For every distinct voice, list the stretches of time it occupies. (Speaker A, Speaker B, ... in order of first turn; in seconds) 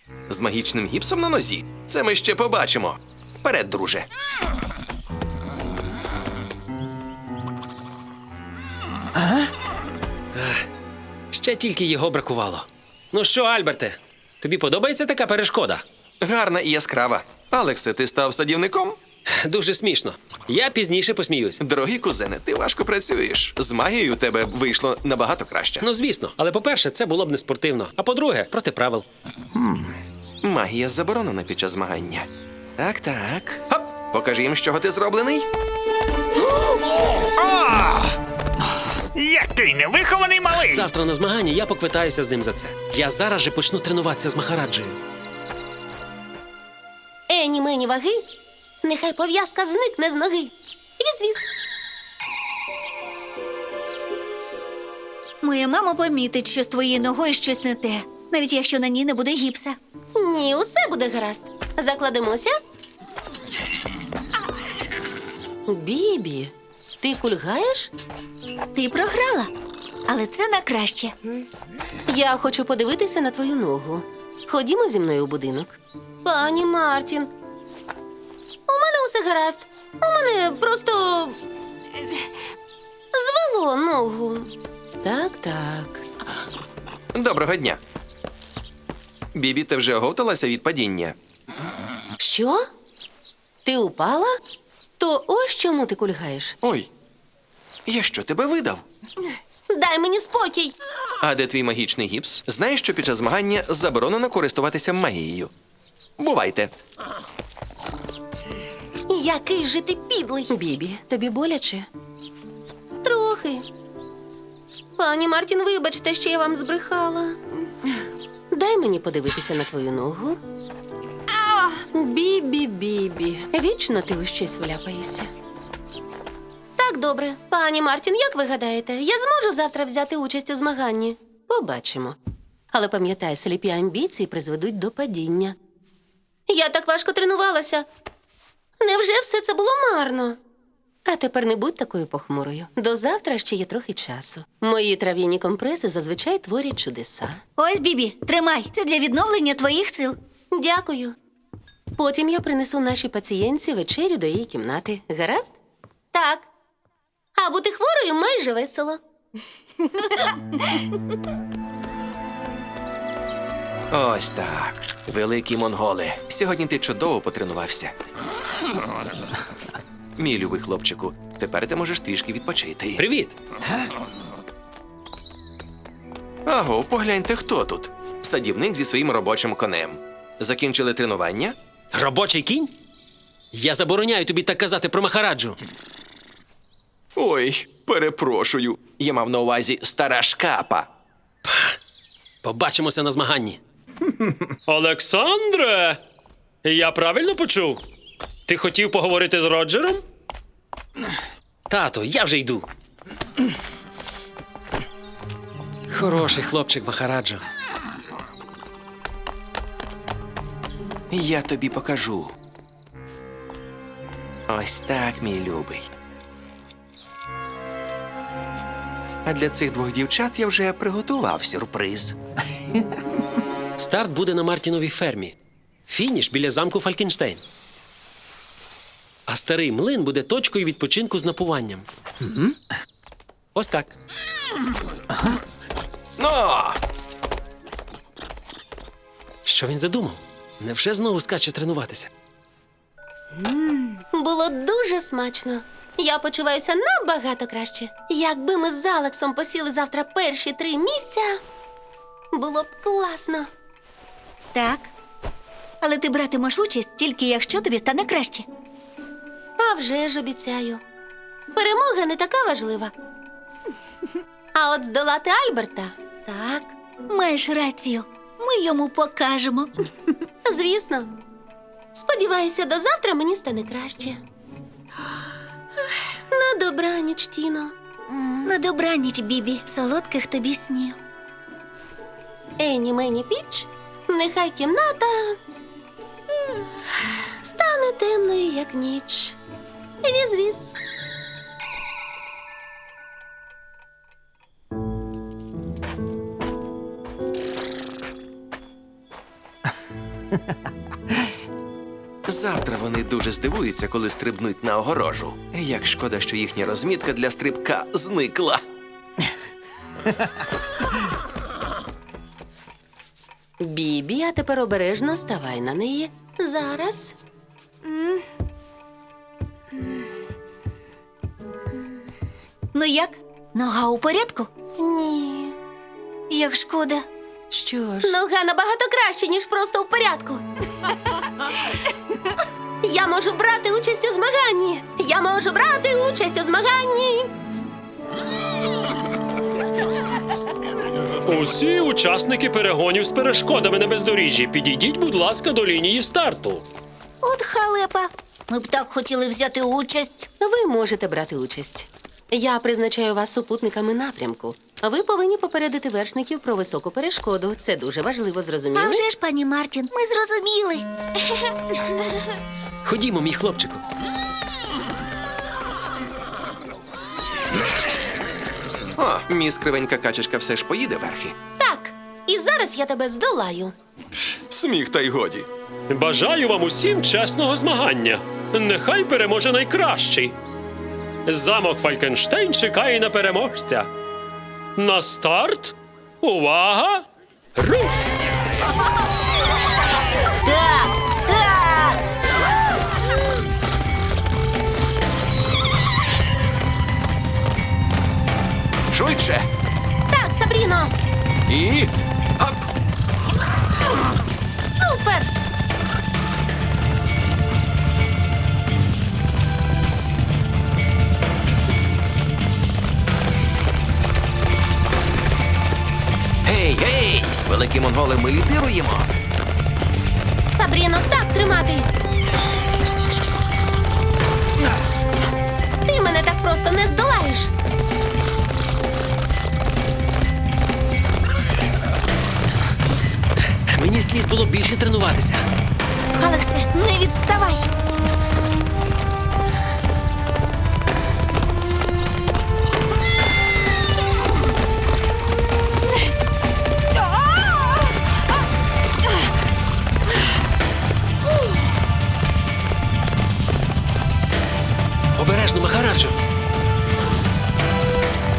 Speaker A: 0.3-4.1, 16.2-19.0, 21.6-25.9, 30.4-35.5, 87.1-87.8, 89.3-91.2, 96.6-96.9, 97.9-98.8, 101.2-105.5, 106.2-106.8, 163.9-167.9, 170.2-173.0, 176.5-181.6, 187.2-190.9, 211.1-212.3, 214.5-215.9, 219.2-222.2, 236.2-236.8, 302.3-308.6, 369.0-371.4, 374.5-375.5, 398.9-399.5, 401.5-402.6, 416.4-419.1
Speaker B: 10.3-10.7, 11.3-15.8, 19.3-21.6, 25.8-29.1, 40.5-45.0, 173.0-173.4, 181.9-182.7, 183.5-185.6, 191.4-191.8, 192.4-193.6, 194.7-196.0, 196.6-197.8, 198.5-200.0, 201.7-202.7, 205.9-207.4, 223.8-225.3, 225.9-227.4, 229.3-231.9, 233.6-233.9, 239.5-242.1, 341.2-346.6, 362.9-363.8, 375.9-380.4, 381.2-383.9, 384.8-387.0, 387.6-388.1, 433.7-435.4, 455.1-456.1
Speaker C: 29.6-29.9, 36.6-38.2, 39.1-40.9
Speaker D: 47.3-48.2, 48.8-51.5, 60.1-62.6, 65.7-67.9, 72.1-77.3, 78.7-81.4, 83.1-84.5, 85.0-86.0, 92.2-92.7, 93.6-94.3, 95.0-96.6, 99.7-100.7, 109.1-111.9, 113.0-113.6, 115.0-117.4, 118.5-120.4, 121.8-125.3, 126.8-132.2, 132.7-135.6, 136.5-137.9, 138.8-140.4, 141.1-147.4, 150.5-151.2, 152.0-155.6, 156.1-156.5, 157.4-159.0, 244.1-251.4, 252.3-253.5, 259.6-260.8, 261.5-262.9, 264.6-266.8, 270.4-271.1, 271.9-274.2, 276.3-277.7, 282.6-285.4, 287.4-289.4, 290.0-290.7, 313.6-317.1, 324.8-325.6, 327.5-330.4, 332.8-337.3, 350.4-359.1, 371.6-373.7, 400.1-400.9, 404.6-405.3, 420.5-421.9, 425.9-427.5
Speaker E: 55.4-59.8, 68.7-69.5, 70.1-71.1, 147.6-150.2, 254.5-254.9, 255.8-258.5, 267.1-269.7, 278.1-281.0, 322.7-324.5, 326.3-327.1, 347.2-350.3, 358.7-360.9, 390.4-392.0, 436.2-437.7